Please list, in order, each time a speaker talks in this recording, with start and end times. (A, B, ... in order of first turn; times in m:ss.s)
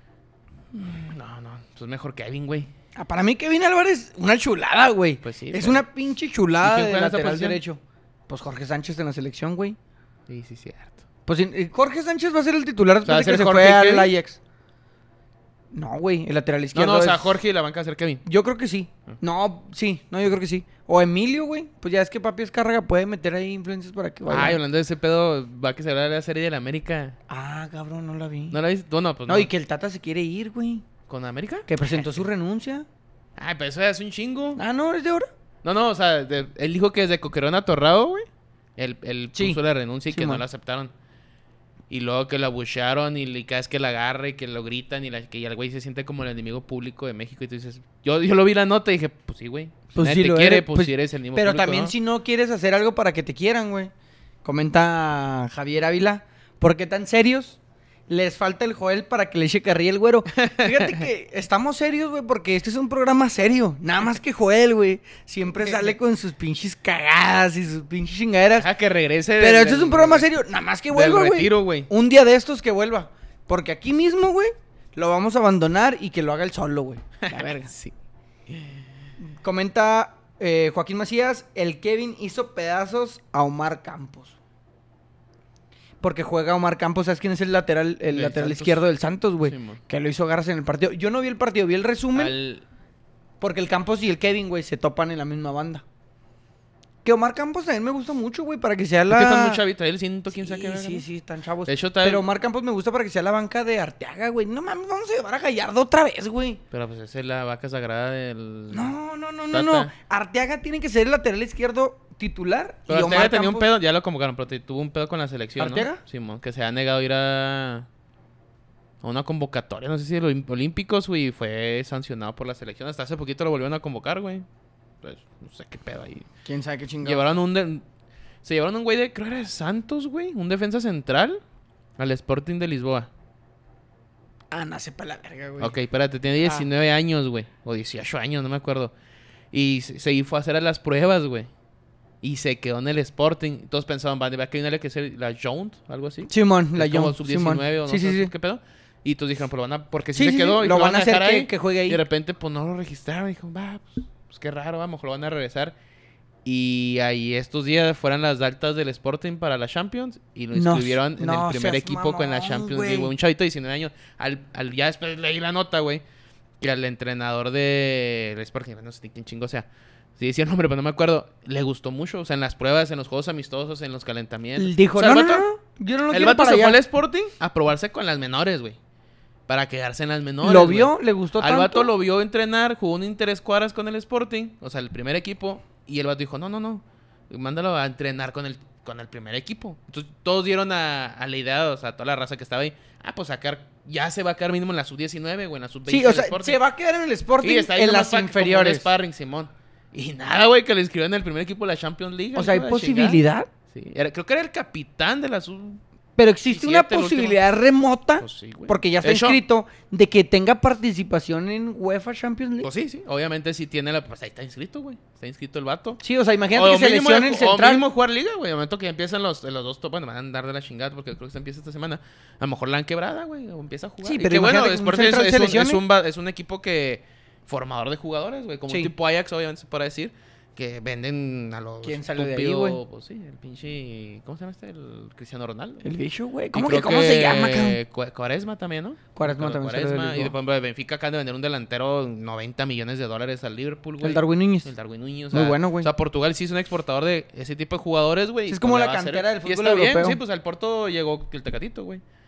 0:00.7-0:02.7 A
0:03.0-0:09.8 B
0:05.2-0:05.8 A
0:06.6-0:07.6 A
0:10.3-0:11.0 A
0:11.3-0:14.4 B
0:13.0-0:14.1 A
0:15.7-0:17.4 B
0:16.7-0:18.2 A
0:18.2-0:24.6 B
0:24.3-0:27.2 A
0:27.3-0:28.6 B
0:28.5-0:29.5 A
0:29.3-0:30.9 B
0:31.1-0:32.1 A
0:31.7-0:32.9 B
0:33.4-0:34.6 A
0:34.6-0:35.3 B
0:35.6-0:38.3 A
0:38.8-0:40.9 A
0:39.3-0:40.4 B
0:41.9-0:51.9 A
0:49.9-0:53.9 B
0:54.4-1:08.7 B
1:00.3-1:01.0 A
1:08.6-1:10.3 A
1:09.4-1:17.7 B
1:10.9-1:11.9 A
1:17.2-1:17.9 A
1:18.5-1:18.8 A
1:19.2-1:24.4 B
1:26.0-1:32.3 B
1:28.1-1:28.8 A
1:29.4-1:29.8 A
1:32.2-1:32.6 A
1:33.4-1:35.8 B
1:37.0-1:39.6 B
1:39.1-1:41.0 A
1:40.3-1:46.6 B
1:41.7-1:42.2 A
1:46.7-1:49.0 A
1:48.7-1:53.7 B
1:49.5-1:49.9 A
1:52.9-1:57.9 A
1:55.6-1:56.0 B
1:59.0-2:04.5 A
2:05.0-2:06.3 A
2:06.4-2:07.2 B
2:07.0-2:07.8 A
2:08.4-2:11.4 A
2:12.0-2:13.1 A
2:14.5-2:15.7 B
2:15.6-2:18.9 A
2:16.4-2:16.7 B
2:19.5-2:21.5 A
2:22.2-2:35.8 A
2:26.3-2:28.3 B
2:30.2-2:32.0 B
2:36.4-2:46.0 A
2:40.5-2:43.1 B
2:46.6-2:49.7 A
2:50.2-2:55.4 A
2:54.6-2:56.8 B
2:56.1-2:58.8 A
2:59.5-3:16.6 A
3:00.4-3:01.9 B
3:15.9-3:18.9 B
3:17.4-3:25.8 A
3:22.4-3:23.5 B
3:26.2-3:32.7 B
3:26.5-3:27.4 A
3:28.2-3:29.4 A
3:32.6-3:36.0 A
3:36.0-3:37.8 B
3:36.5-3:55.9 A
3:44.0-3:45.8 B
3:51.8-3:52.8 B
3:55.8-3:57.8 B
3:56.5-4:12.0 A
3:59.2-4:00.4 B
4:04.0-4:04.7 B
4:05.3-4:05.9 B
4:08.5-4:10.2 B